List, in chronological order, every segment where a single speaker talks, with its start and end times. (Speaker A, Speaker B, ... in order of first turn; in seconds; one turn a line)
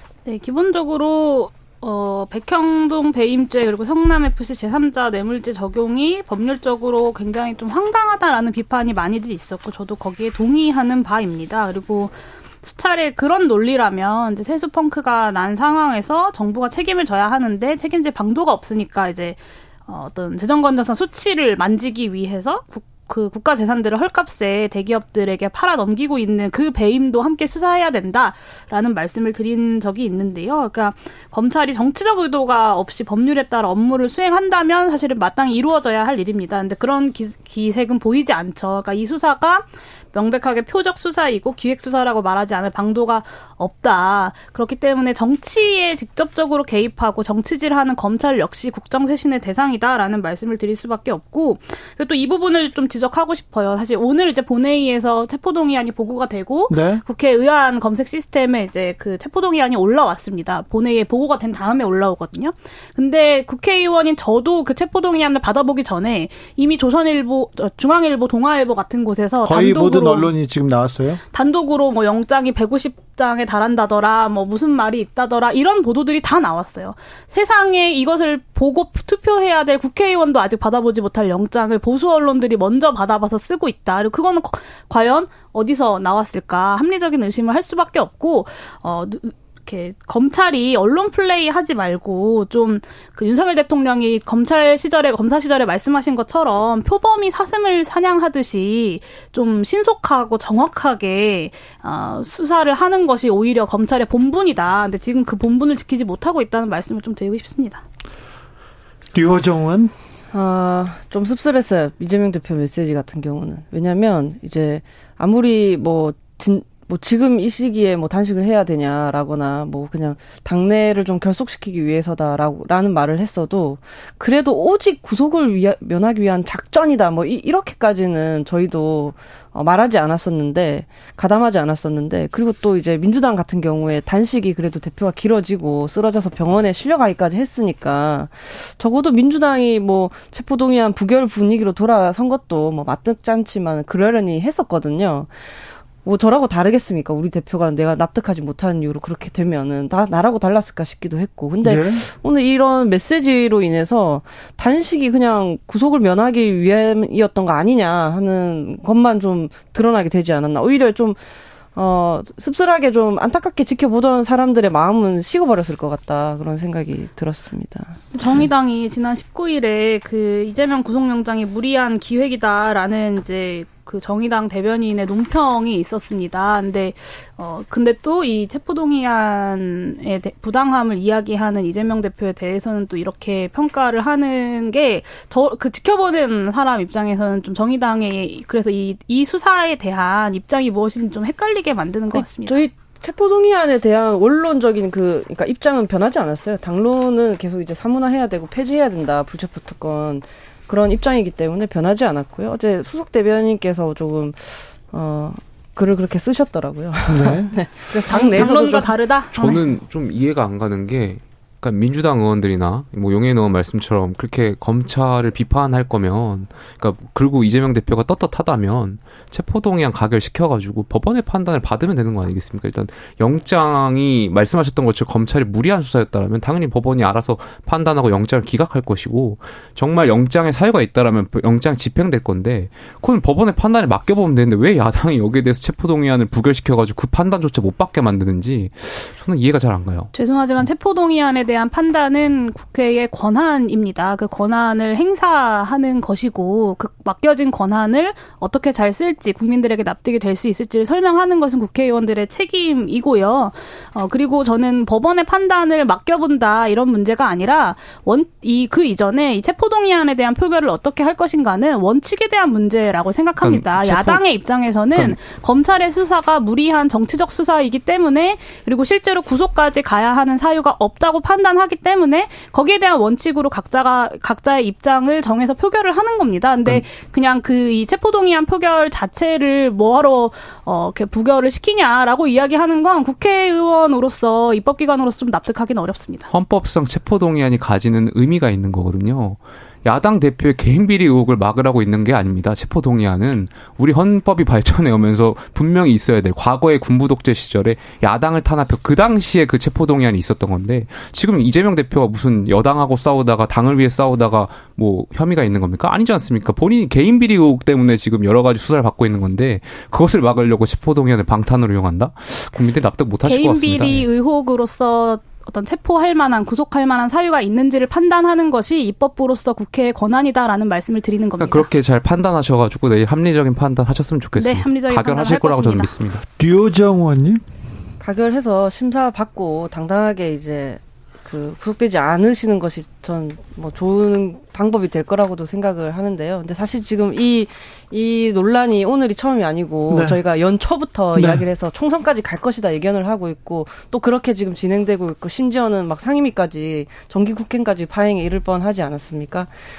Speaker A: 0.3-70.3
Speaker B: 56.7-57.0
Speaker B: 69.5-71.2
Speaker A: 71.3-107.8
Speaker B: 109.1-109.9
Speaker C: 110.3-145.3
Speaker C: 146.0-161.2
Speaker B: 151.6-152.1
Speaker C: 161.7-168.0
Speaker A: 168.1-192.6
Speaker C: 192.1-209.0
Speaker B: 207.1-207.5
Speaker A: 208.1-209.7
Speaker D: 209.3-240.1
Speaker A: 240.1-286.3
Speaker D: 263.4-264.2
Speaker D: 286.3-314.1
Speaker A: 313.2-321.7
Speaker D: 321.4-326.2
Speaker A: 324.4-325.9
Speaker B: 326.4-327.4
Speaker C: 328.0-349.6
Speaker B: 339.9-340.2
Speaker B: 341.2-341.4